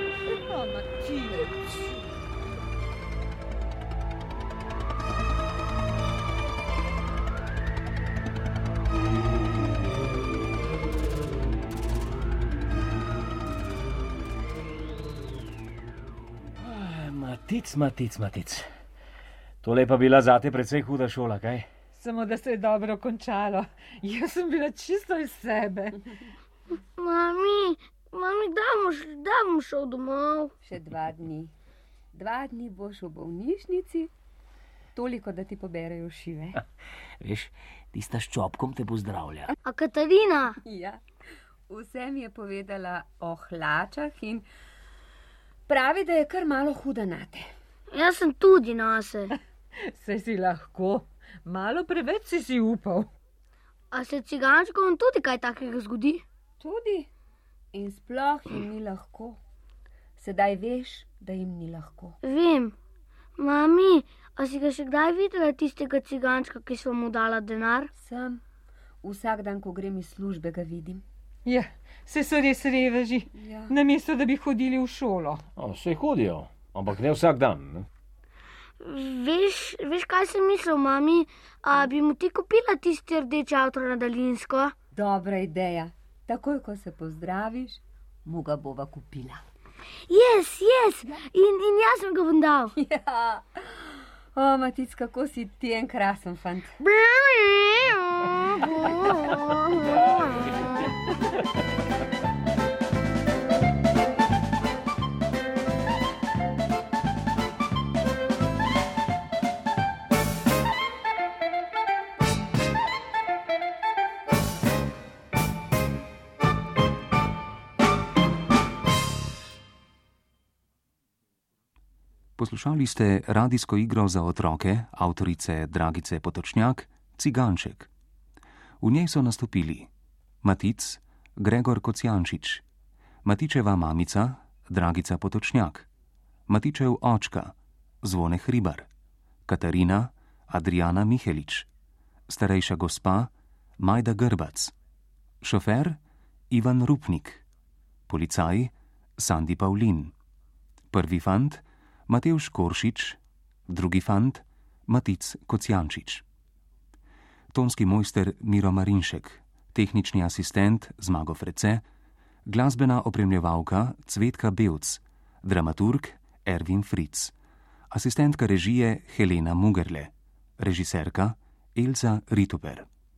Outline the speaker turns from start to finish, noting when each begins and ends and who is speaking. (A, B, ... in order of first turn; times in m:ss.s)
0:00.5-0:02.0 A
0:16.6-0:18.7 B
0:19.6-0:21.7 B
0:21.9-0:26.0 A
0:27.0-0:30.5 C
0:30.6-0:31.5 D
0:32.1-0:34.1 D
0:35.0-0:36.6 D
0:37.2-0:39.5 B
0:39.6-0:40.6 C
0:40.6-0:41.0 D
0:41.7-0:44.5 D
0:45.7-0:47.5 D
0:47.9-0:49.3 C
0:49.8-0:53.1 A
0:53.9-0:56.2 C
0:56.6-0:57.1 D
0:57.7-0:59.4 D
1:00.2-1:02.2 D
1:02.2-1:02.8 C
1:03.4-1:07.9 C
1:08.0-1:08.4 D
1:09.0-1:11.0 D
1:11.5-1:15.4 A
1:13.4-1:13.8 D
1:15.6-1:17.9 B
1:18.8-1:24.7 C
1:24.9-1:29.4 D
1:30.1-1:32.7 C
1:32.8-1:36.8 D
1:36.8-1:40.8 C
2:02.4-2:07.9 E
2:08.8-2:09.9 E
2:10.4-2:12.6 E
2:13.2-2:15.9 E
2:16.5-2:18.9 E
2:19.5-2:21.7 E
2:22.3-2:24.7 E
2:25.4-2:26.0 E
2:26.5-2:27.4 E
2:28.1-2:30.1 E
2:30.9-2:36.2 E
2:37.5-2:41.8 E
2:42.5-2:47.3 E
2:47.9-2:52.9 E